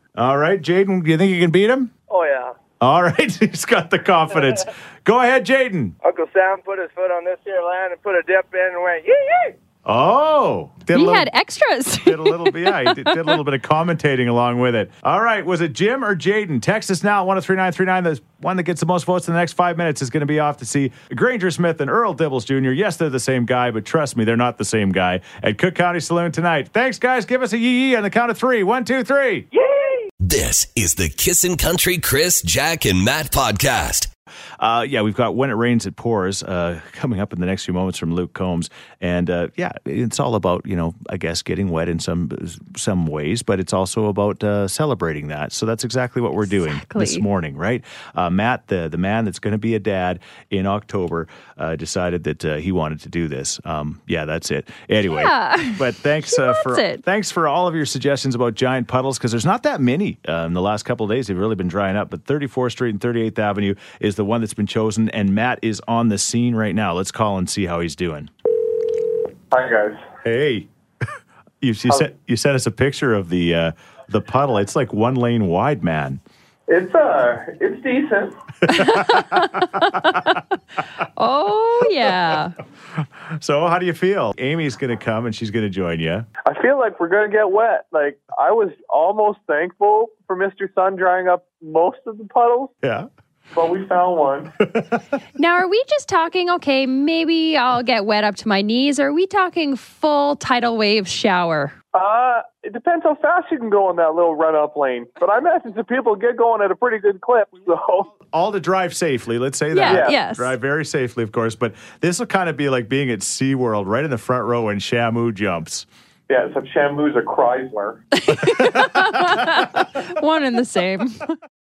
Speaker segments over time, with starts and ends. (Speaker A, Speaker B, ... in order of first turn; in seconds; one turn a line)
Speaker A: 0.1-1.9
Speaker B: 2.1-2.5
Speaker A: 2.8-5.9
Speaker B: 6.0-9.5
Speaker A: 9.8-11.3
Speaker C: 10.9-13.4
Speaker A: 11.9-29.5
Speaker D: 30.2-34.1
Speaker A: 34.6-68.3
Speaker C: 46.6-47.2
Speaker C: 55.1-57.0
Speaker E: 69.5-70.0
Speaker A: 70.2-70.7
Speaker A: 71.6-76.2
Speaker E: 76.7-78.4
Speaker A: 78.7-80.2
Speaker C: 78.7-80.4
Speaker C: 81.2-82.5
Speaker A: 82.0-82.3
Speaker A: 82.9-86.3
Speaker E: 86.5-92.7
Speaker A: 92.8-93.1
Speaker E: 93.5-94.5
Speaker A: 94.7-95.0
Speaker C: 95.3-101.7
Speaker E: 101.9-108.1
Speaker A: 108.2-115.9
Speaker C: 109.7-110.5
Speaker E: 109.9-110.2
Speaker E: 116.3-118.0
Speaker C: 118.2-121.3
Speaker A: 118.5-119.0